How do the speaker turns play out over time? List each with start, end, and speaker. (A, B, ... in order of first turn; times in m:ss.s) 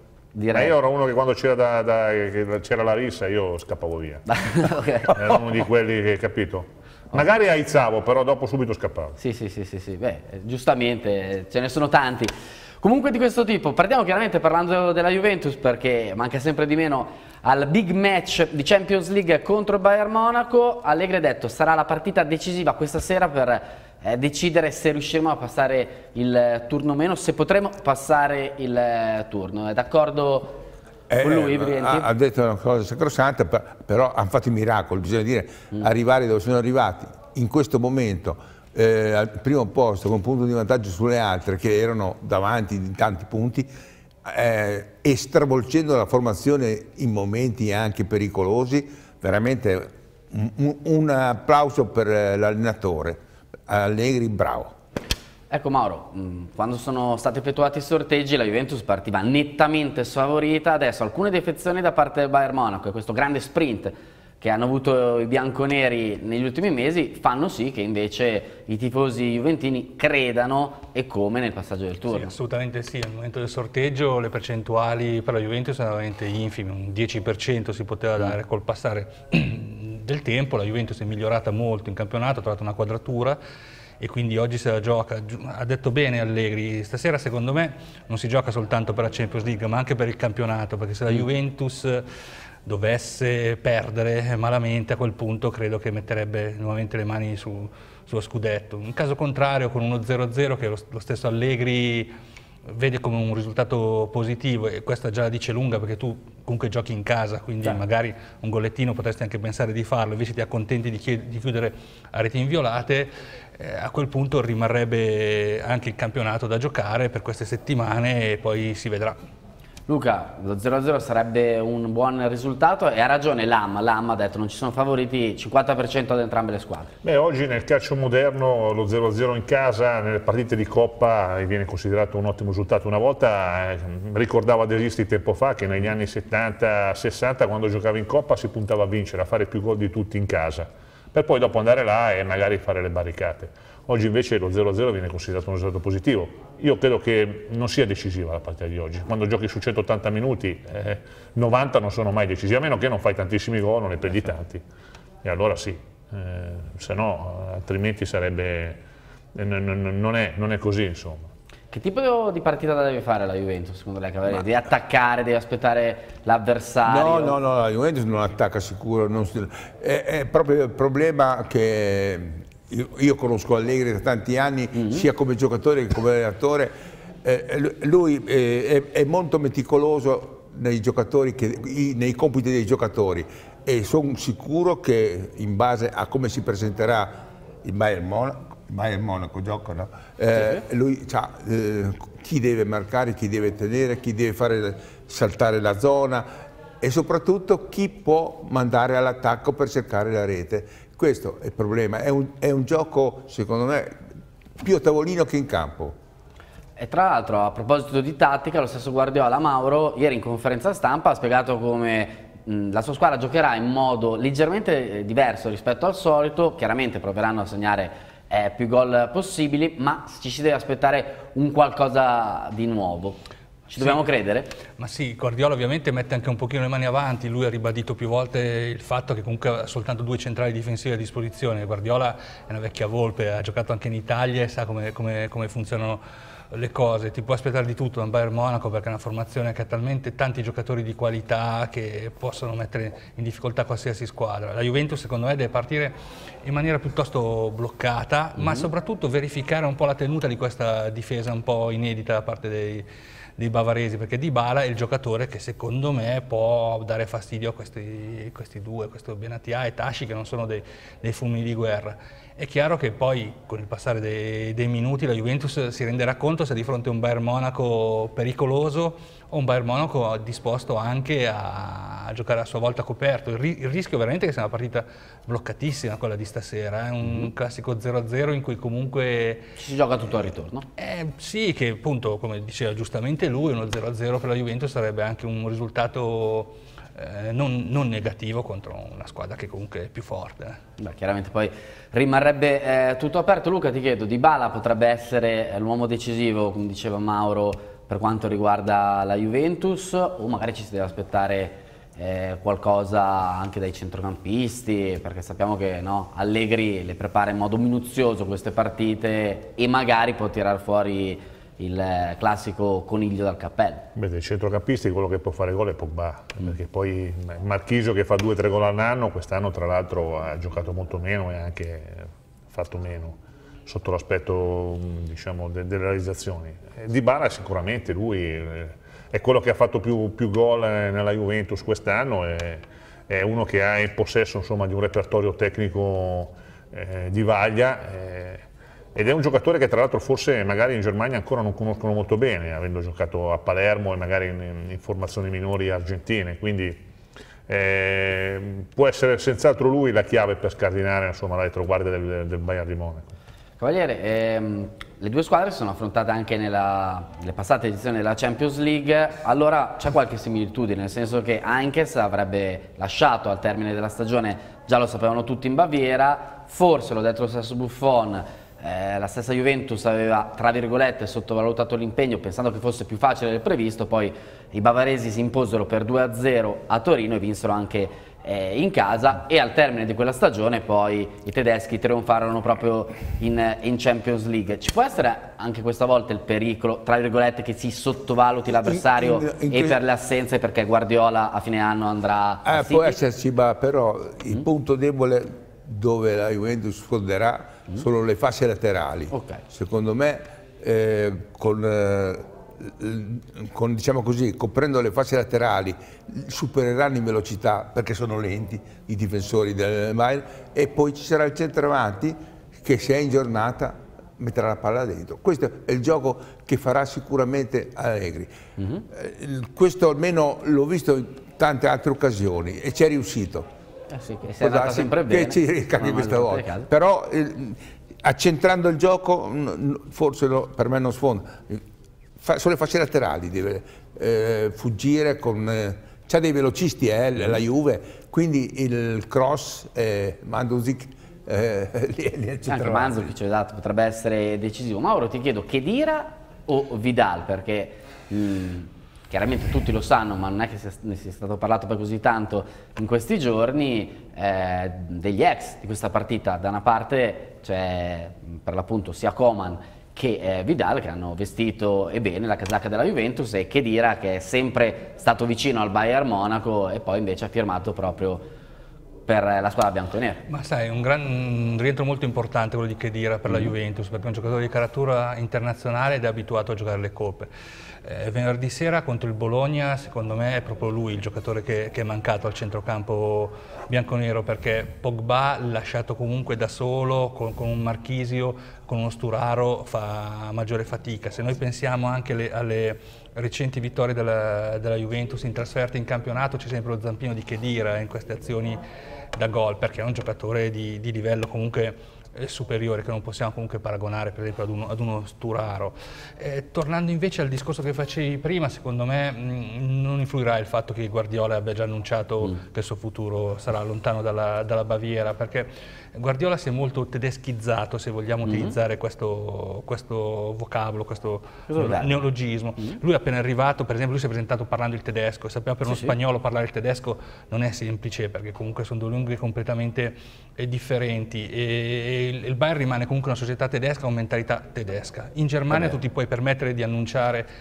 0:00.3-0:00.8 A
0:00.5-0:04.2 B
0:04.3-0:05.2 A
0:05.1-0:09.2 B
0:09.2-0:12.3 A
0:12.8-0:30.6 A
0:31.1-0:43.7 C
0:31.2-0:32.1 A
0:44.2-0:54.7 C
0:55.5-1:12.3 A
1:12.1-1:23.4 D
1:24.0-1:32.0 D
1:32.6-1:42.1 D
1:42.7-1:59.2 D
1:59.9-2:06.9 A
2:07.0-2:34.6 B
2:35.2-2:38.8 B
2:39.4-2:41.3 B
2:41.7-2:47.4 A
2:46.8-2:56.7 C
2:54.7-2:55.0 A
2:57.2-3:16.2 C
3:10.3-3:10.6 A
3:16.8-3:23.9 C
3:24.6-3:26.0 C
3:26.8-3:44.6 A
3:44.8-4:12.8 D
4:08.4-4:08.7 A
4:13.4-4:39.5 D
4:37.0-4:37.3 A
4:39.6-4:40.6 A
4:40.8-4:50.6 D
4:50.8-5:13.8 A
5:14.0-5:22.0 B
5:22.5-5:38.4 B
5:38.9-5:46.8 B
5:47.5-5:53.1 B
5:53.6-6:33.0 A
6:28.5-6:29.8 C
6:32.4-6:58.3 C
6:39.1-6:39.4 A
6:58.6-6:58.8 A
6:58.9-7:03.5 C
7:03.9-7:06.7 A
7:04.4-7:11.6 C
7:12.2-7:23.1 C
7:22.5-7:48.3 A
7:49.0-7:50.2 A
7:50.3-7:57.3 D
7:57.8-8:18.6 D
8:19.1-8:57.3 D
8:38.2-8:38.6 A
8:41.5-8:42.0 A
8:45.6-8:45.9 A